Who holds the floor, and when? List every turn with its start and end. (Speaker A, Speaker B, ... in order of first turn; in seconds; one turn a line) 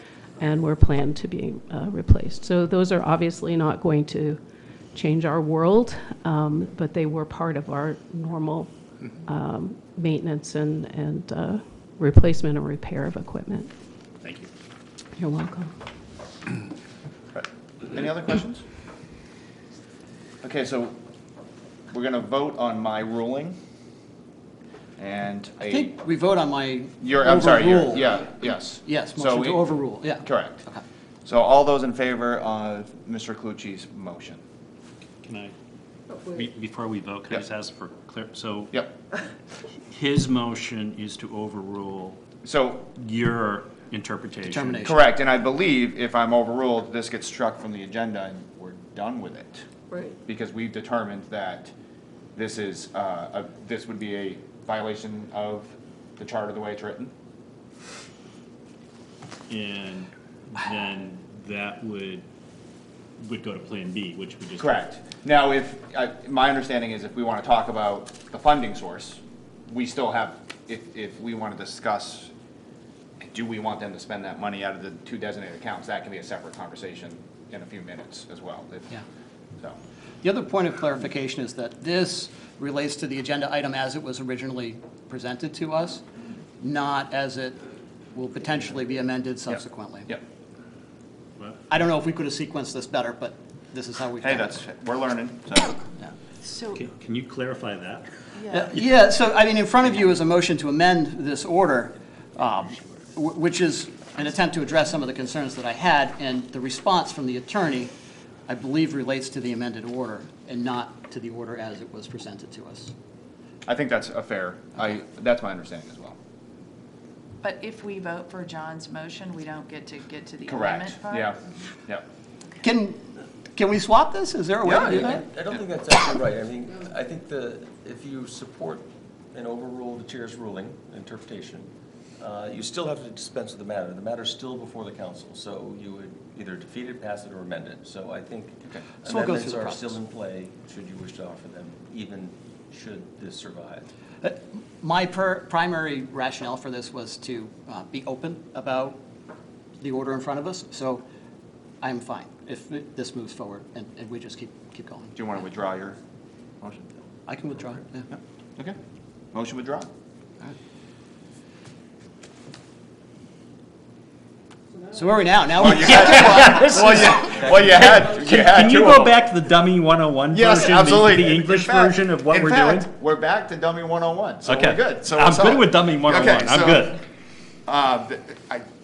Speaker A: 0.4-4.4
Speaker A: 4.9-13.7
Speaker A: 15.2-15.7
Speaker B: 17.4-18.6
Speaker B: 20.4-21.0
Speaker B: 21.9-23.6
Speaker B: 25.0-25.9
Speaker C: 25.6-30.8
Speaker B: 27.0-29.7
Speaker B: 30.2-30.6
Speaker B: 31.3-34.4
Speaker D: 35.2-35.5
Speaker D: 36.4-38.7
Speaker D: 39.9-42.2
Speaker B: 42.5-42.9
Speaker D: 43.0-44.9
Speaker C: 44.5-45.0
Speaker B: 44.8-49.6
Speaker B: 50.3-51.7
Speaker B: 52.4-57.1
Speaker D: 59.5-62.3
Speaker D: 63.2-64.8
Speaker B: 64.6-72.3
Speaker B: 73.2-79.0
Speaker C: 80.2-86.0
Speaker C: 86.6-87.6
Speaker C: 88.1-90.2
Speaker C: 91.7-94.6
Speaker B: 94.2-95.8
Speaker E: 96.5-96.8
Speaker D: 96.7-98.1
Speaker E: 98.4-98.7
Speaker C: 98.5-107.9
Speaker C: 108.5-112.9
Speaker B: 113.7-116.2
Speaker E: 117.4-121.3
Speaker B: 120.5-122.1
Speaker C: 122.6-125.2
Speaker B: 124.7-125.0
Speaker F: 124.7-143.9
Speaker C: 139.0-140.0
Speaker C: 144.2-149.0
Speaker C: 149.8-151.0
Speaker C: 151.8-155.2
Speaker B: 155.2-156.0
Speaker B: 156.6-156.9
Speaker C: 157.3-158.1
Speaker B: 158.1-158.8
Speaker B: 159.3-159.9
Speaker C: 164.9-167.3
Speaker B: 165.6-169.2
Speaker D: 165.9-166.8
Speaker D: 167.8-172.9
Speaker B: 170.3-177.0
Speaker D: 174.4-177.0
Speaker B: 177.7-178.7